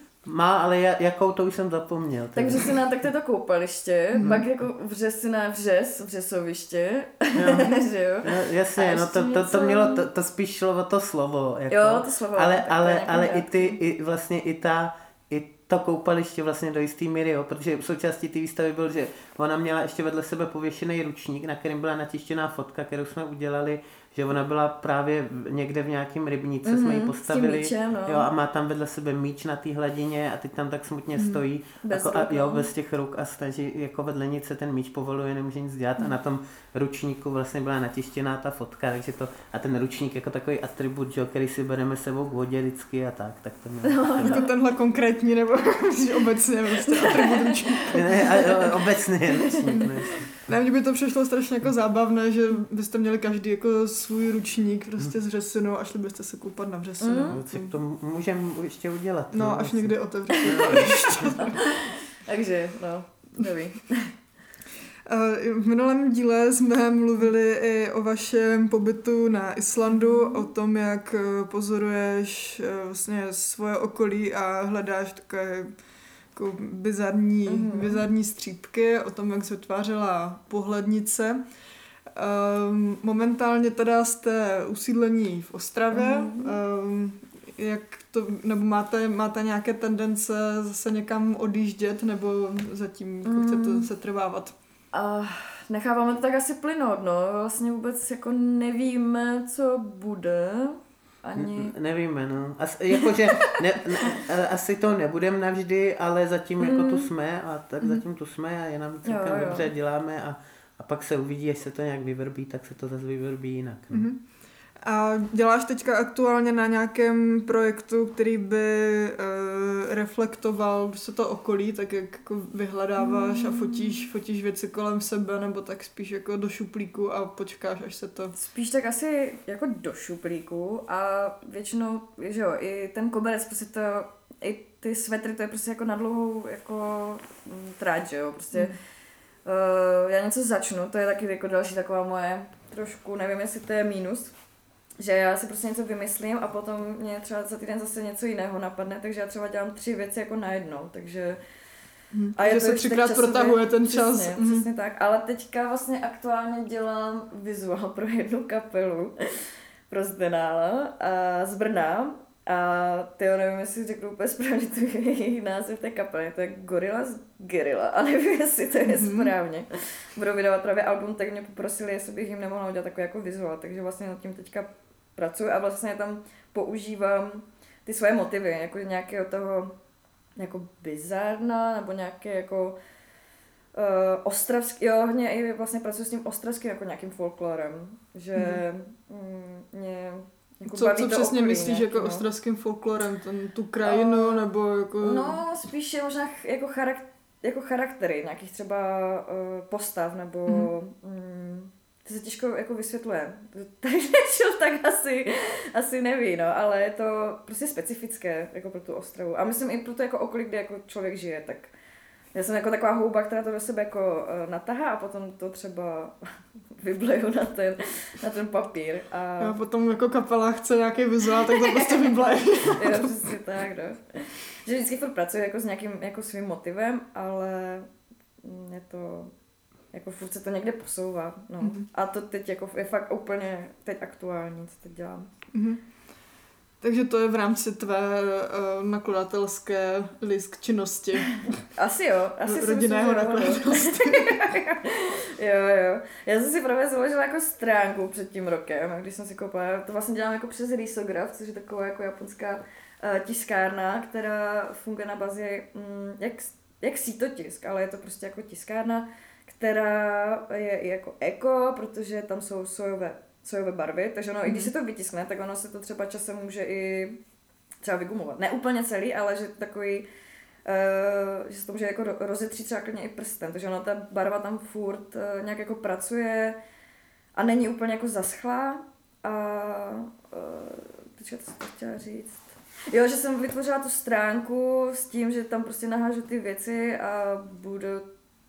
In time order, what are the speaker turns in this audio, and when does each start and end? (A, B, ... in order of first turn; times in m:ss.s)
0:00.2-0:02.8 A
0:02.4-0:10.1 B
0:04.2-0:04.4 C
0:07.4-0:44.4 A
0:11.7-0:13.8 B
0:26.6-0:28.3 B
0:31.2-0:31.4 C
0:31.8-0:32.7 B
0:43.8-0:44.5 B
0:44.2-0:48.5 C
0:46.9-0:50.2 B
0:47.9-0:50.3 A
0:50.4-0:57.8 C
0:57.0-0:57.4 B
0:57.3-1:01.5 A
0:59.3-1:01.7 C
1:00.3-1:04.1 B
1:05.1-1:15.7 C
1:16.3-1:21.4 C
1:17.5-1:18.0 B
1:22.1-1:34.5 C
1:25.9-1:26.6 B
1:33.2-1:33.9 B
1:34.9-1:41.7 B
1:41.4-1:54.1 A
1:43.0-1:44.2 B
1:46.6-1:47.1 B
1:49.0-1:49.7 B
1:53.9-1:54.2 C
1:54.8-2:08.3 C
2:03.0-2:04.1 B
2:08.3-2:18.7 B
2:19.4-2:24.3 B
2:25.0-2:31.4 B
2:32.1-2:34.7 C
2:32.4-2:59.7 B
2:48.9-2:49.3 C
3:00.4-3:02.8 B
3:03.7-3:12.3 B
3:08.4-3:08.6 C
3:10.7-3:15.4 C
3:13.8-3:14.4 B
3:15.0-3:31.7 B
3:20.5-3:20.7 C
3:32.3-3:36.2 B
3:36.8-3:39.6 B
3:39.4-3:43.3 C
3:41.5-3:42.0 B
3:42.7-3:47.9 B
3:48.4-3:49.3 B
3:49.9-3:55.3 B
3:51.6-3:51.9 C
3:55.5-3:55.8 C
3:56.8-4:01.6 C
4:01.8-4:27.2 B
4:02.4-4:04.5 C
4:24.4-4:24.7 C
4:27.8-4:30.1 B
4:30.7-4:36.6 B
4:37.4-4:48.1 B